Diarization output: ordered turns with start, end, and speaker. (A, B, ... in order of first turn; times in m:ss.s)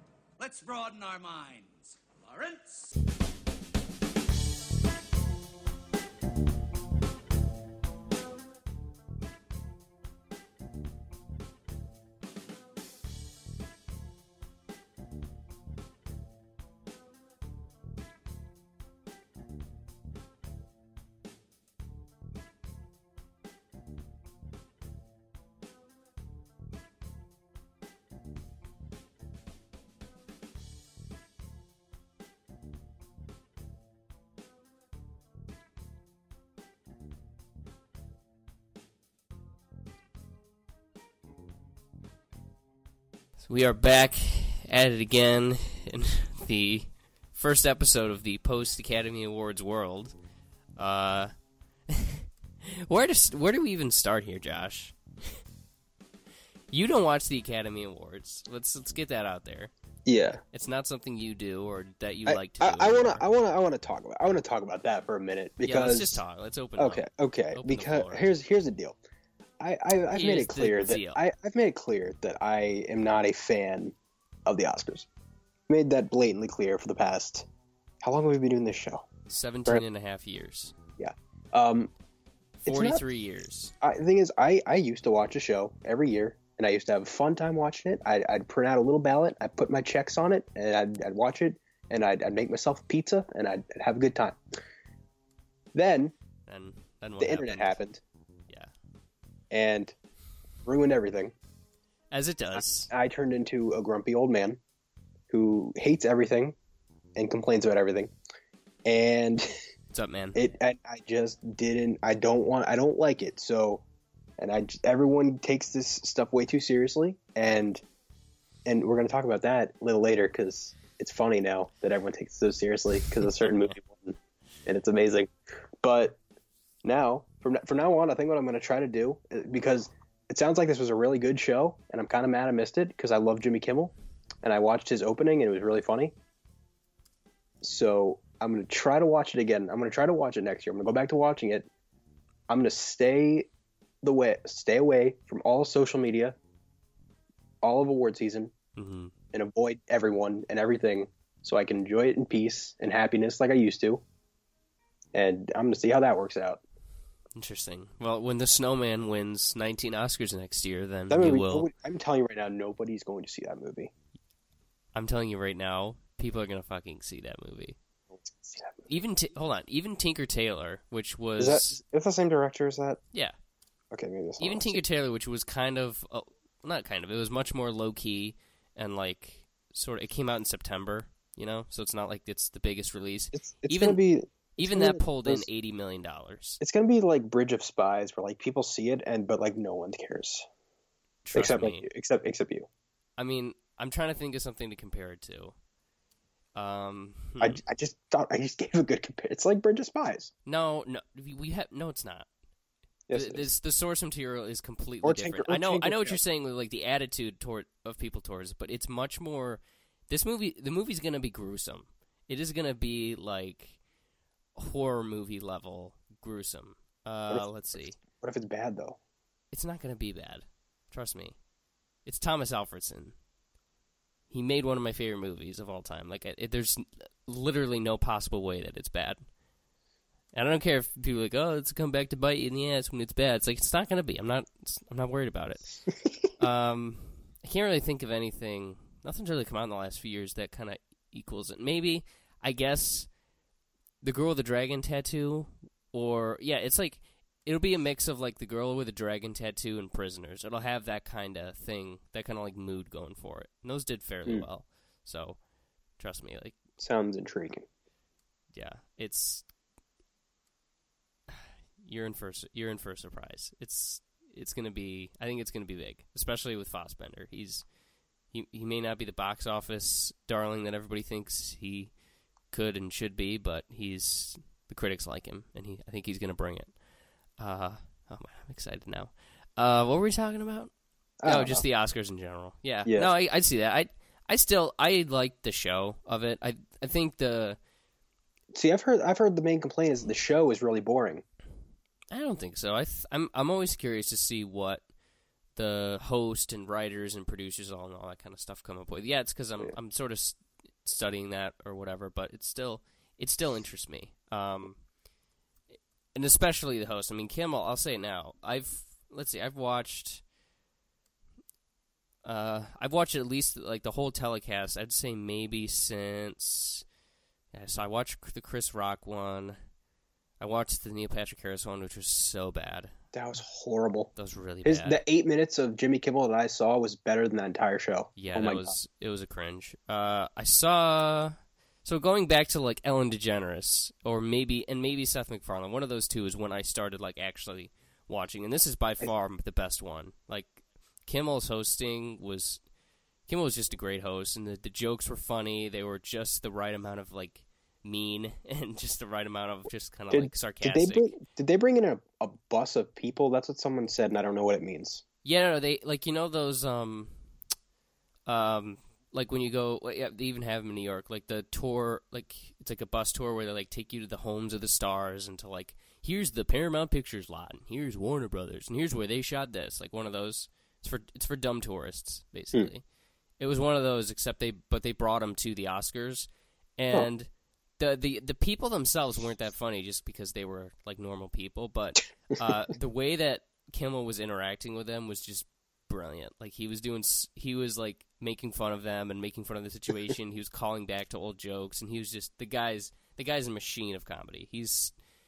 0:00.4-0:02.9 A
0:43.4-0:50.2 B
0:50.8-0:51.3 B
0:51.9-0:55.0 B
0:56.7-0:59.7 B
1:00.0-1:00.4 C
1:00.5-1:03.2 B
1:02.2-1:06.2 C
1:05.6-1:08.3 B
1:06.8-1:09.0 C
1:09.6-1:15.1 C
1:10.1-1:11.2 B
1:15.7-1:17.5 C
1:18.0-1:19.1 C
1:19.3-1:20.8 B
1:21.0-1:21.9 C
1:22.6-1:23.0 C
1:22.6-1:23.7 B
1:23.8-1:34.4 C
1:35.7-1:36.1 C
1:36.5-1:37.8 B
1:37.2-1:38.0 C
1:39.5-1:39.9 C
1:40.6-1:41.3 C
1:42.1-1:42.9 B
1:42.6-1:44.6 C
1:45.3-1:46.6 C
1:47.2-1:48.1 C
1:48.8-1:49.5 C
1:49.9-1:50.4 B
1:50.3-1:53.8 C
1:54.4-1:57.8 C
1:58.6-2:06.2 C
2:06.8-2:16.1 C
2:17.6-2:21.7 C
2:22.5-2:23.5 C
2:24.0-2:26.4 C
2:27.6-2:28.5 C
2:28.8-2:29.1 B
2:29.3-2:34.0 C
2:35.1-2:36.6 C
2:37.4-2:41.7 B
2:41.1-2:43.9 C
2:44.9-2:47.8 B
2:48.1-2:48.8 C
2:48.8-2:51.8 B
2:51.4-2:53.0 C
2:53.9-2:54.8 C
2:54.4-3:04.0 B
3:03.3-3:05.4 C
3:04.6-3:06.6 B
3:06.6-3:10.5 C
3:11.2-3:11.9 B
3:11.3-3:12.7 C
3:13.2-3:15.6 B
3:16.5-3:17.6 B
3:17.4-3:20.3 C
3:20.4-3:22.3 B
3:23.1-3:23.4 C
3:23.1-3:33.8 B
3:25.0-3:26.2 C
3:34.6-3:38.0 B
3:38.0-3:39.0 C
3:39.5-3:41.4 B
3:42.0-3:43.1 B
3:44.3-3:49.2 B
3:50.3-3:55.8 B
3:56.4-4:03.1 B
4:04.0-4:15.4 B
4:16.0-4:16.5 B
4:16.8-4:17.7 C
4:18.5-4:19.4 B
4:21.3-4:27.6 B
4:28.3-4:31.9 B
4:32.5-4:36.7 B
4:37.4-4:40.7 B
4:41.2-4:41.6 C
4:41.2-4:47.6 B
4:48.5-4:51.2 C
4:52.1-4:54.8 B
4:55.5-5:04.8 B
5:06.1-5:10.2 B
5:12.2-5:16.8 B
5:17.5-5:19.6 B
5:20.4-5:22.9 B
5:23.1-5:24.1 C
5:24.2-5:25.0 B
5:24.6-5:28.8 C
5:28.2-5:42.6 B
5:43.3-5:51.2 B
5:50.1-5:55.0 C
5:55.2-5:57.2 B
5:58.2-6:12.8 B
6:13.4-6:35.0 B